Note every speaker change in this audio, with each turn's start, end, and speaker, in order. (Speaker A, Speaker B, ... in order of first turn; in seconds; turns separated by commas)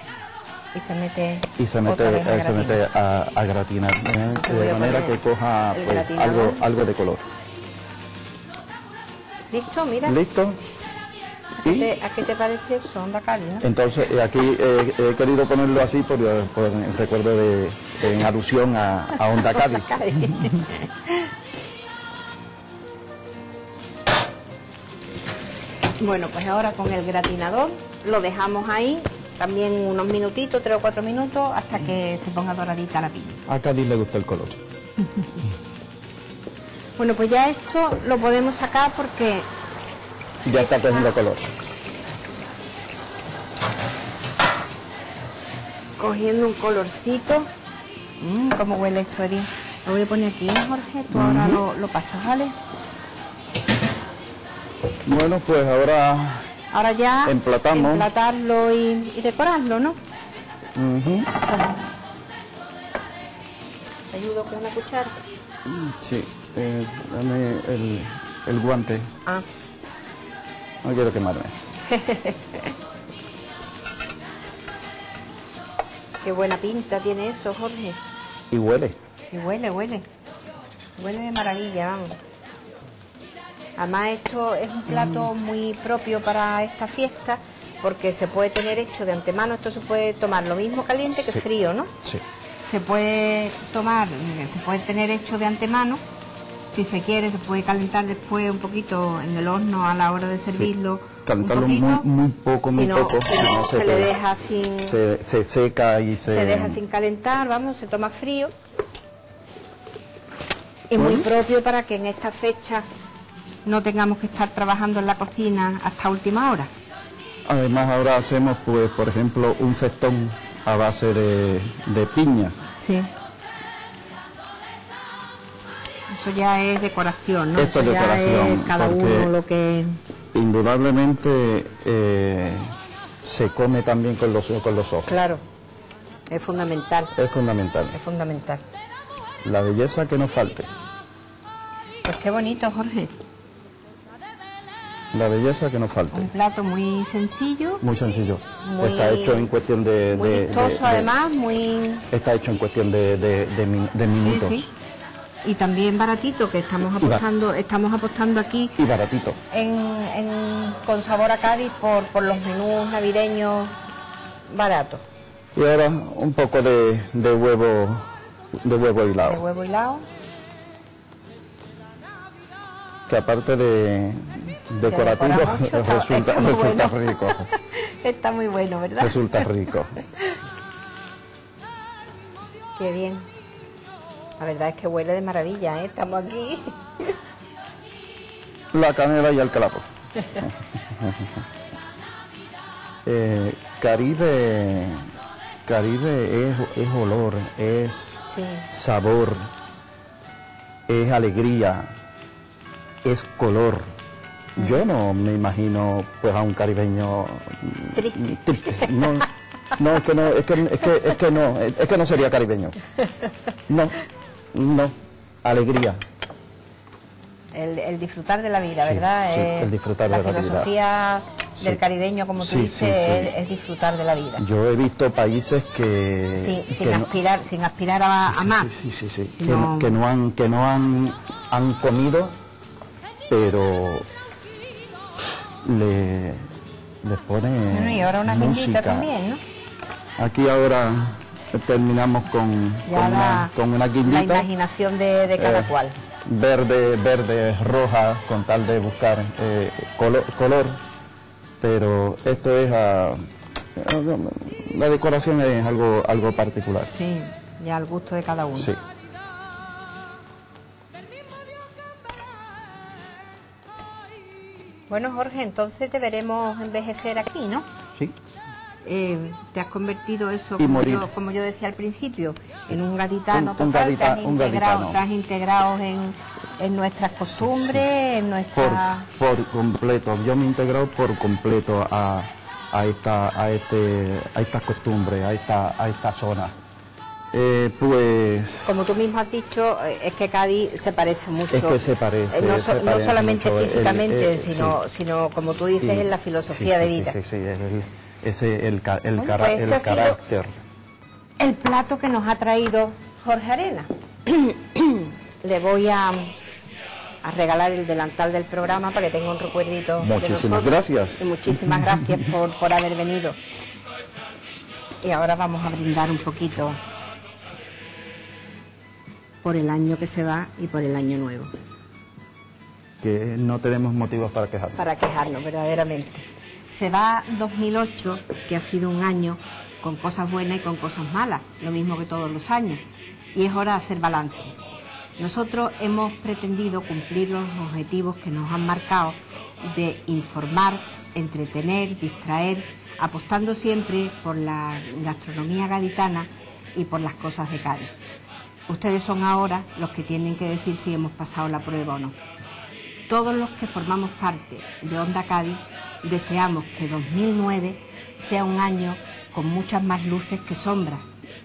Speaker A: 0.7-2.8, Speaker B: 1.6-7.2, Speaker A: 4.3-6.7, Speaker A: 9.5-10.2, Speaker B: 10.0-10.6, Speaker A: 11.6-13.7, Speaker B: 11.6-11.9, Speaker B: 13.6-20.5, Speaker A: 19.2-21.3, Speaker A: 26.0-33.4, Speaker B: 33.5-34.5, Speaker A: 37.0-39.5, Speaker B: 40.4-41.5, Speaker A: 40.6-41.1, Speaker A: 46.0-47.5, Speaker A: 48.2-52.5, Speaker B: 51.1-51.6, Speaker B: 55.0-56.5, Speaker A: 56.7-60.0, Speaker B: 57.2-58.1, Speaker B: 60.7-61.4, Speaker A: 64.1-65.2, Speaker B: 65.6-69.1, Speaker B: 70.8-71.5, Speaker A: 71.8-72.7, Speaker A: 76.2-78.0, Speaker B: 78.5-78.9, Speaker A: 79.3-80.1, Speaker A: 81.0-82.2, Speaker A: 83.8-91.9, Speaker B: 84.9-85.3, Speaker B: 91.1-91.4, Speaker A: 92.6-96.0, Speaker A: 96.7-102.1, Speaker B: 101.2-104.1, Speaker A: 102.7-105.0, Speaker B: 104.8-106.8, Speaker A: 106.2-108.5, Speaker A: 110.9-112.8, Speaker B: 111.0-111.3, Speaker A: 113.6-116.7, Speaker B: 117.5-122.5, Speaker A: 122.8-123.1, Speaker A: 126.1-130.0, Speaker B: 127.5-129.3, Speaker B: 130.3-135.1, Speaker A: 135.1-135.4, Speaker A: 136.3-137.1, Speaker B: 137.1-137.9, Speaker A: 137.9-138.6, Speaker B: 139.4-140.7, Speaker A: 142.0-143.1, Speaker B: 145.1-146.3, Speaker A: 146.1-147.8, Speaker B: 147.8-151.1, Speaker A: 148.6-149.5, Speaker A: 150.1-152.0, Speaker B: 152.1-154.6, Speaker A: 154.2-154.7, Speaker A: 155.4-158.8, Speaker B: 158.8-159.4, Speaker A: 159.5-163.7, Speaker A: 164.5-165.0, Speaker B: 165.5-169.4, Speaker A: 169.2-170.0, Speaker B: 173.1-177.5, Speaker A: 174.8-179.5, Speaker B: 179.0-180.0, Speaker A: 182.8-183.2, Speaker A: 184.4-187.1, Speaker B: 188.7-189.8, Speaker B: 190.3-191.3, Speaker B: 193.0-195.1, Speaker B: 195.7-199.5, Speaker A: 198.3-198.7, Speaker B: 200.9-201.9, Speaker B: 203.0-203.8, Speaker B: 204.6-212.8, Speaker A: 207.9-209.2, Speaker B: 213.7-213.9, Speaker B: 214.5-216.0, Speaker A: 217.5-224.4, Speaker B: 218.8-220.7, Speaker B: 222.4-223.3, Speaker B: 224.4-227.1, Speaker A: 226.3-228.8, Speaker B: 228.2-232.4, Speaker A: 229.4-230.0, Speaker B: 233.3-234.1, Speaker B: 235.6-236.5, Speaker B: 237.0-239.1, Speaker A: 237.7-239.4, Speaker B: 240.2-244.5, Speaker A: 242.9-243.5, Speaker A: 244.0-246.0, Speaker B: 245.4-245.7, Speaker B: 246.2-250.8, Speaker B: 251.6-256.9, Speaker A: 256.9-258.7, Speaker A: 264.9-267.6, Speaker A: 268.8-279.1, Speaker B: 270.6-271.1, Speaker B: 273.3-275.0, Speaker B: 277.3-277.9, Speaker B: 278.5-286.5, Speaker B: 287.3-289.0, Speaker A: 288.6-297.1, Speaker B: 291.5-294.8, Speaker B: 295.8-300.6, Speaker A: 299.1-300.2, Speaker A: 301.4-306.3, Speaker A: 307.2-313.4, Speaker B: 310.0-312.3, Speaker A: 315.0-316.8, Speaker A: 319.4-321.5, Speaker B: 323.0-324.8, Speaker A: 324.8-332.8, Speaker A: 333.3-334.6, Speaker A: 335.2-347.9, Speaker A: 348.7-352.1, Speaker A: 353.1-361.0